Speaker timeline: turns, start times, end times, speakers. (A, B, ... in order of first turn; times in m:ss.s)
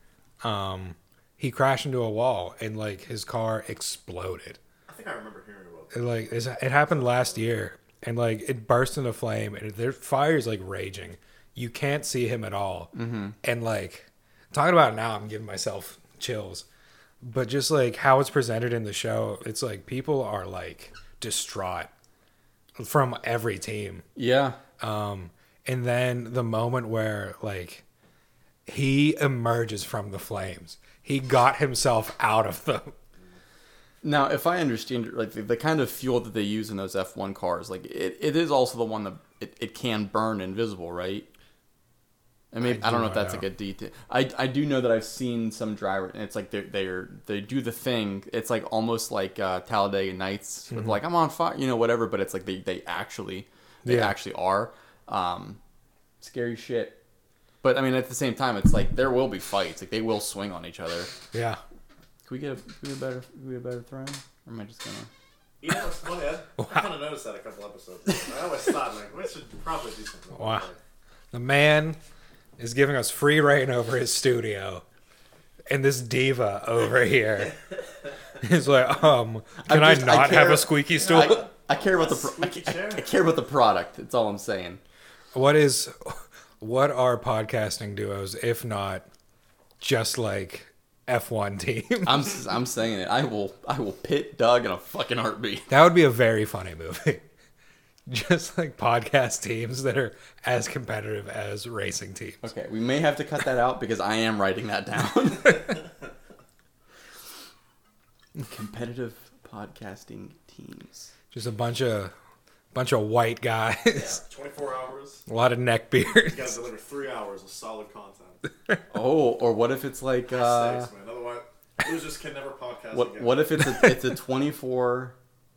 0:00.4-0:04.6 A
0:04.9-0:06.2 B
0:05.9-0:16.7 A
0:12.9-0:13.4 C
0:17.2-0:21.9 A
0:22.8-0:24.1 A
0:24.2-0:24.6 C
0:24.8-0:27.8 A
0:28.7-0:33.0 A
0:34.0-0:41.3 C
0:42.5-0:55.6 C
0:42.6-0:43.4 A
0:53.8-0:54.1 A
0:56.2-0:57.0 C
0:57.6-1:01.1 C
1:01.3-1:01.6 A
1:02.3-1:05.1 C
1:05.6-1:10.8 B
1:06.6-1:06.9 A
1:10.4-1:10.7 A
1:11.3-1:12.0 A
1:12.6-1:14.8 A
1:15.7-1:17.6 A
1:18.4-1:21.5 A
1:19.6-1:24.8 C
1:21.0-1:23.1 B
1:25.3-1:29.1 A
1:29.8-1:32.3 A
1:32.0-1:35.7 C
1:35.7-1:37.2 A
1:38.1-1:42.4 A
1:42.4-1:45.8 C
1:48.4-1:51.1 C
1:51.3-1:52.1 A
1:52.7-1:54.2 A
1:53.9-1:55.3 B
1:55.3-1:56.6 A
1:56.2-1:58.4 B
1:58.9-2:00.9 C
2:00.3-2:03.5 B
2:02.9-2:05.2 C